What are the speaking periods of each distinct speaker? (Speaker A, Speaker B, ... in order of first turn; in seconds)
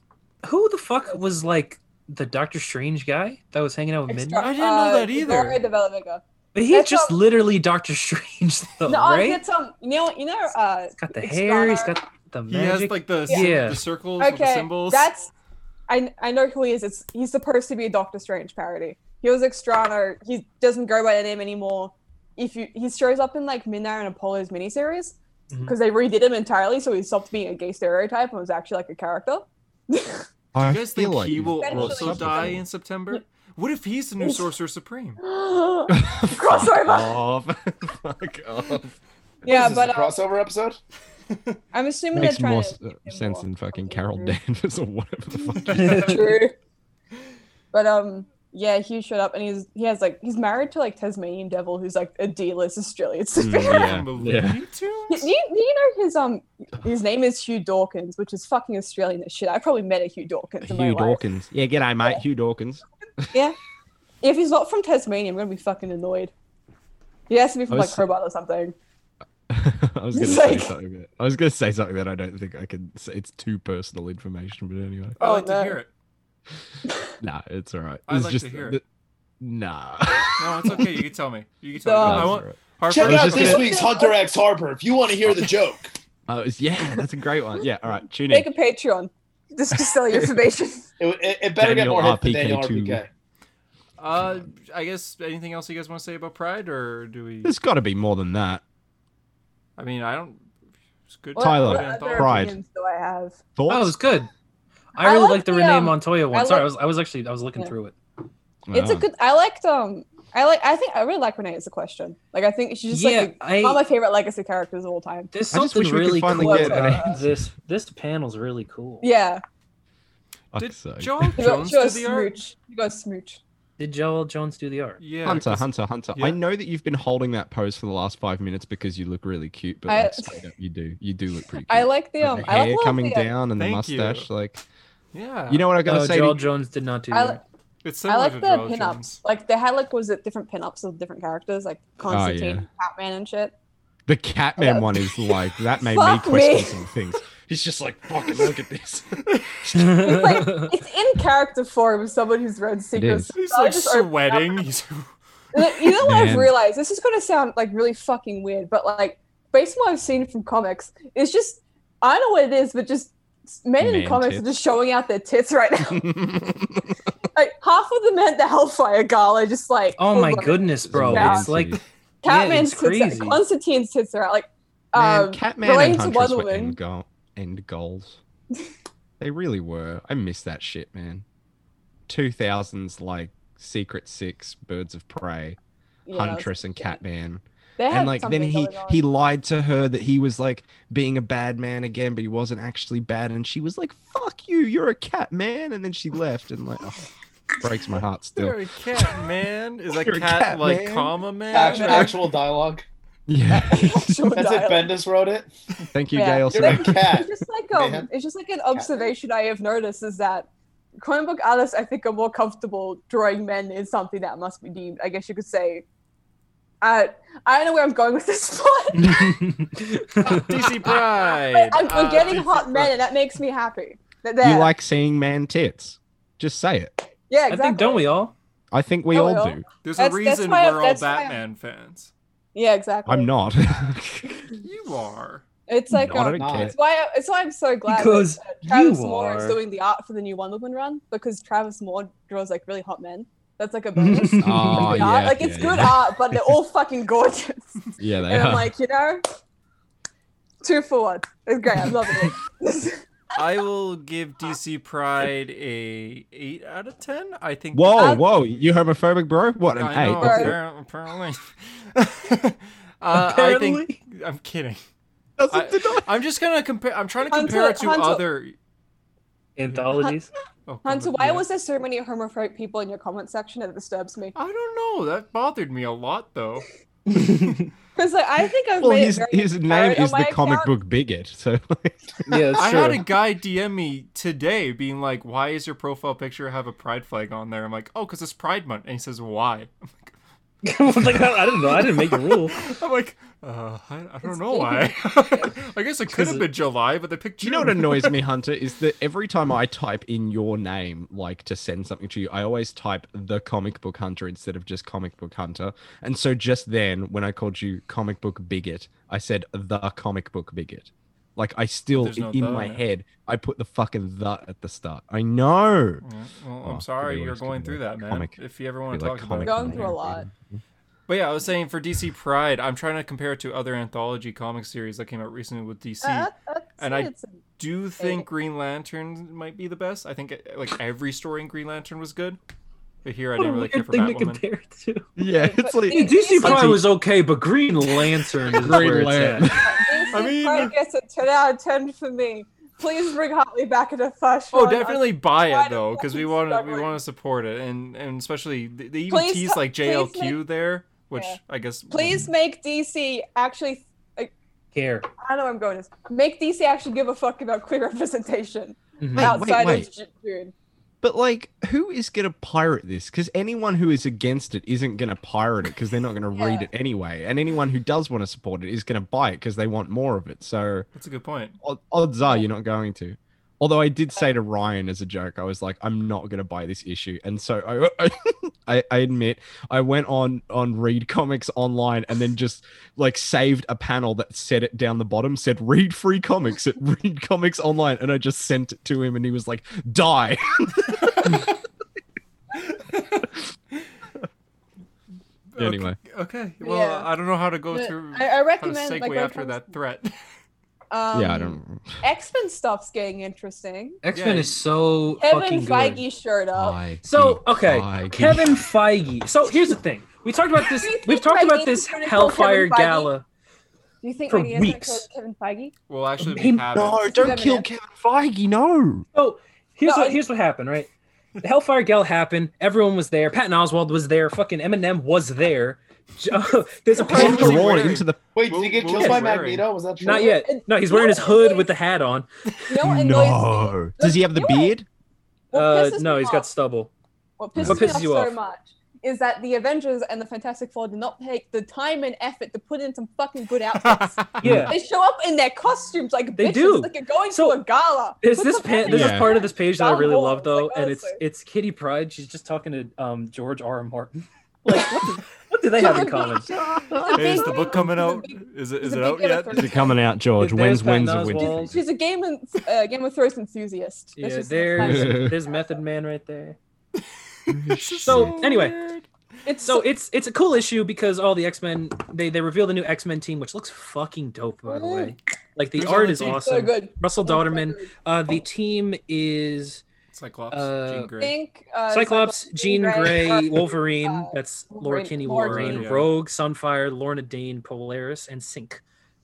Speaker A: 0.4-4.5, 6.5-9.4, 11.0-13.8, 45.7-46.2, 103.7-104.3, 104.9-107.9, 112.9-113.8, 115.3-119.1, 123.8-125.0, 135.8-137.4, 149.7-150.7, 170.0-173.4, 219.0-220.6, 227.5-228.3, 237.9-239.6, 243.9-245.0, 263.1-264.0, 269.6-270.3, 277.1-277.7, 282.3-283.0, 290.6-292.6, 296.1-296.5, 333.4-335.1, 335.9-339.5, 354.7-355.1, 359.0-359.4, 404.0-406.0, 407.0-413.2, 414.3-415.1, 416.2-416.6, 419.1-420.9, 421.4-427.7, 428.9-429.2, 430.0-432.3, 435.5-436.9, 437.6-438.3, 444.4-444.7, 446.4-447.6, 448.2-456.5, 460.4-461.7, 464.1-466.6, 468.0-468.8, 469.6-479.8, 480.5-481.1, 481.9-488.8
Speaker B: 4.1-7.2, 8.8-11.9, 13.3-13.6, 14.2-15.3, 15.9-30.2, 31.6-32.6, 35.2-37.1, 39.5-40.2, 41.7-44.4, 45.4-46.5, 47.7-54.0, 55.1-61.2, 64.2-66.3, 67.3-68.7, 70.1-70.7, 75.2-75.8, 76.9-77.1, 81.8-82.4, 83.3-84.2, 88.3-90.9, 101.3-103.4, 105.0-106.7, 108.7-115.3, 116.3-117.2, 119.0-119.4, 121.4-123.4, 129.9-130.4, 131.7-133.3, 137.1-137.4, 138.1-143.5, 144.6-146.8, 149.9-154.6, 155.5-166.1, 167.3-171.5, 172.2-176.8, 186.1-187.0, 187.8-189.0, 201.5-202.1, 203.5-204.9, 206.1-210.5, 211.0-215.8, 216.8-219.4, 220.2-224.7, 227.3-228.1, 229.1-231.4, 232.5-233.3, 235.7-249.2, 250.6-253.0, 257.9-258.2, 260.2-260.6, 267.2-268.2, 270.8-274.3, 277.9-280.7, 294.2-295.5, 319.4-320.3, 326.0-327.4, 328.0-328.2, 335.4-336.8, 339.6-346.9, 349.1-350.4, 351.9-354.3, 355.2-360.5, 366.3-366.7, 396.6-397.1, 397.7-399.6, 400.9-404.0, 405.2-406.8, 410.6-413.1, 414.0-415.7, 417.1-417.6, 419.8-420.2, 426.9-427.7, 430.1-431.7, 432.7-434.7, 435.5-436.5, 437.4-451.2, 455.8-460.0, 461.3-465.3, 469.4-469.9, 474.7-475.1, 476.2-477.9, 481.2-485.9
Speaker C: 4.4-5.6, 12.5-15.1, 30.6-35.2, 53.5-55.3, 75.2-75.9, 78.1-78.8, 80.4-83.7, 94.0-97.5, 99.8-100.4, 101.1-102.5, 120.5-122.3, 125.0-126.4, 133.6-134.3, 135.1-135.7, 137.8-139.2, 149.3-149.6, 153.3-155.9, 198.3-202.1, 220.3-222.9, 229.8-232.1, 234.6-235.4, 253.3-258.2, 259.7-264.8, 265.5-268.5, 270.7-271.4, 274.3-276.7, 282.6-290.1, 291.8-298.2, 311.9-312.8, 316.0-320.0, 321.1-332.4, 333.0-334.4, 340.1-340.7, 344.5-352.2, 370.9-371.6, 391.0-391.5, 392.5-393.9, 395.5-400.1, 404.1-404.6, 415.9-417.4, 427.1-429.6, 443.7-444.4, 457.1-459.9, 467.4-469.0, 475.8-476.5, 480.1-481.3, 485.4-486.1
Speaker D: 30.5-32.6, 35.9-38.9, 42.1-46.2, 53.4-54.6, 60.6-63.3, 67.7-68.0, 69.5-75.2, 77.2-78.8, 79.4-81.0, 82.0-83.7, 86.3-88.5, 89.7-90.3, 91.6-93.0, 97.4-98.6, 101.3-102.5, 103.5-104.0, 108.7-109.1, 115.5-117.4, 120.5-121.4, 125.2-134.6, 135.5-136.4, 142.1-142.7, 144.1-150.1, 152.9-153.3, 156.0-156.5, 163.8-164.4, 165.9-166.9, 170.9-171.8, 174.9-178.2, 179.2-181.2, 182.1-185.6, 186.1-197.0, 197.6-198.6, 200.0-202.1, 203.3-204.2, 205.9-207.2, 224.4-227.0, 228.7-229.6, 233.1-234.4, 235.9-236.7, 244.4-246.5, 248.0-248.7, 257.7-260.6, 265.4-266.1, 278.8-283.0, 297.4-316.0, 316.6-318.3, 318.9-320.6, 335.2-336.8, 338.5-340.0, 359.1-359.9, 361.0-370.9, 371.6-391.5, 395.6-396.0, 401.1-402.0, 406.5-408.6, 416.7-419.1, 427.1-428.2, 432.8-434.9, 437.6-438.0, 444.4-444.7, 448.9-449.4, 456.6-457.6, 459.5-461.8, 464.8-465.3, 467.5-468.4
Speaker E: 39.5-40.8, 82.9-85.9, 91.0-93.1, 201.5-202.8, 204.3-205.5, 206.5-208.1, 208.7-209.1, 236.3-236.7, 428.3-430.3